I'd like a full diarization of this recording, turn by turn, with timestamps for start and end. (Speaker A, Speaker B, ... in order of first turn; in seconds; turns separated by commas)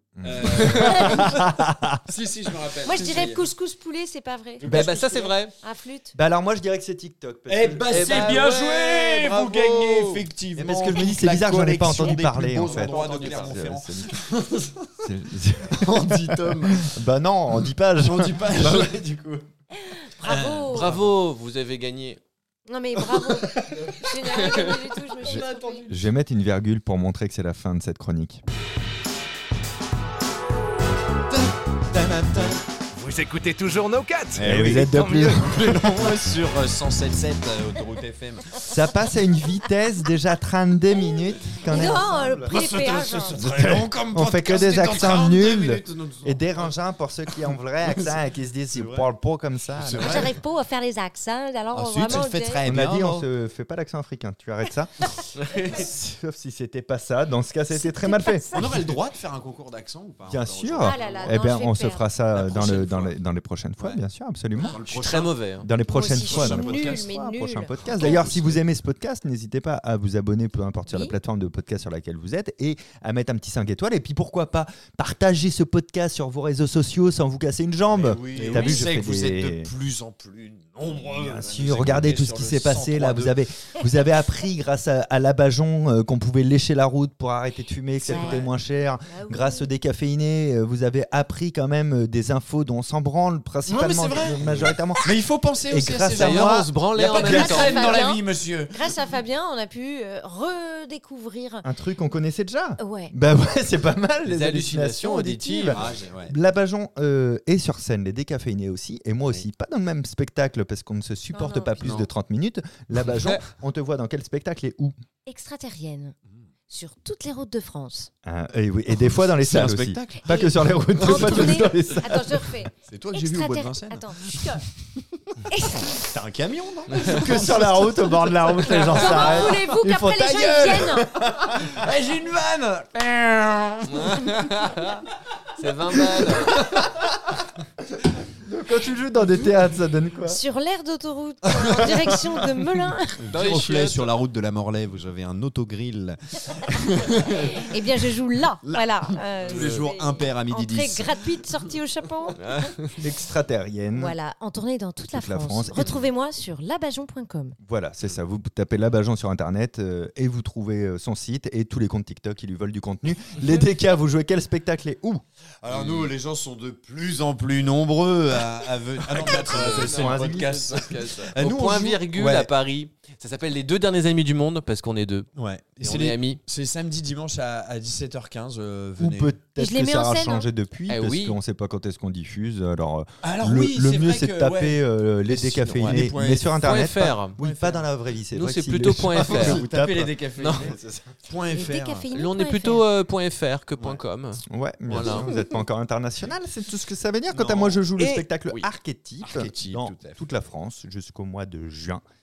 Speaker A: 0.2-2.0, Speaker B: 0.2-3.4, Speaker C: 0.4-1.2, Speaker D: 2.8-4.7, Speaker B: 4.6-5.3, Speaker C: 4.7-5.5, Speaker A: 4.7-5.0, Speaker D: 5.6-6.2, Speaker A: 6.2-8.4, Speaker B: 7.5-15.1, Speaker C: 7.9-10.2, Speaker A: 10.6-14.2, Speaker C: 12.6-13.6, Speaker A: 15.0-18.9, Speaker B: 15.7-16.9, Speaker B: 18.0-19.5, Speaker D: 19.8-20.9, Speaker B: 20.2-21.1, Speaker C: 20.3-22.2, Speaker D: 22.7-25.9, Speaker B: 23.2-26.0, Speaker A: 25.9-28.4, Speaker B: 31.3-32.6, Speaker E: 32.9-35.5, Speaker B: 34.4-38.6, Speaker A: 34.4-36.2, Speaker A: 38.6-42.5, Speaker D: 41.7-43.4, Speaker B: 42.5-46.7, Speaker A: 43.4-50.3, Speaker B: 47.8-48.1, Speaker B: 48.7-49.1, Speaker B: 49.8-50.3, Speaker D: 50.0-52.6, Speaker B: 51.7-53.3, Speaker A: 52.6-54.9, Speaker C: 55.4-55.9, Speaker A: 55.6-59.0, Speaker D: 57.7-58.8, Speaker B: 58.5-61.4, Speaker A: 60.3-64.8, Speaker D: 60.8-62.1, Speaker B: 62.3-63.1, Speaker B: 64.6-65.3, Speaker C: 64.8-65.7, Speaker A: 65.6-79.7, Speaker D: 65.9-68.2, Speaker B: 66.1-67.1, Speaker B: 67.8-68.6, Speaker D: 70.9-71.1, Speaker B: 77.9-83.4, Speaker C: 78.3-78.8, Speaker A: 80.9-95.1, Speaker B: 88.0-88.5, Speaker D: 88.1-88.4, Speaker D: 89.1-89.7, Speaker B: 93.7-98.8, Speaker A: 95.7-96.7, Speaker C: 96.2-98.0, Speaker D: 97.1-101.7, Speaker A: 101.6-114.9, Speaker D: 102.8-103.1, Speaker C: 104.2-105.8, Speaker B: 105.7-106.3, Speaker D: 111.3-111.8, Speaker B: 111.8-112.1, Speaker D: 115.3-116.2, Speaker D: 116.7-118.1, Speaker A: 118.2-122.6, Speaker B: 119.2-121.7, Speaker D: 121.0-124.7, Speaker B: 122.9-124.6, Speaker D: 125.4-126.1, Speaker B: 125.8-129.5, Speaker A: 127.0-131.9, Speaker D: 128.9-131.1, Speaker B: 130.4-134.3, Speaker C: 133.9-135.1, Speaker C: 135.6-136.7, Speaker B: 136.0-136.9, Speaker A: 138.0-140.4, Speaker D: 140.3-143.2, Speaker A: 141.7-142.3, Speaker B: 143.2-148.1, Speaker C: 143.3-144.1, Speaker D: 147.4-152.7, Speaker B: 148.7-151.3, Speaker C: 149.4-149.9, Speaker C: 152.4-152.9, Speaker A: 153.0-154.2, Speaker D: 153.9-157.6, Speaker A: 155.1-156.0, Speaker A: 157.6-165.2, Speaker B: 165.6-172.5, Speaker C: 165.7-166.1, Speaker C: 169.2-175.3, Speaker A: 169.2-170.7, Speaker B: 175.4-179.3, Speaker C: 175.8-176.4, Speaker A: 179.0-191.2, Speaker D: 179.6-180.5, Speaker C: 180.9-181.4, Speaker B: 183.2-187.8, Speaker C: 185.8-187.4, Speaker C: 188.3-189.6, Speaker B: 189.1-192.1, Speaker C: 190.4-190.7, Speaker D: 191.5-192.8, Speaker C: 192.1-195.2, Speaker A: 194.5-202.0, Speaker B: 194.9-195.3, Speaker B: 197.3-197.8, Speaker C: 198.0-198.7, Speaker B: 199.2-200.2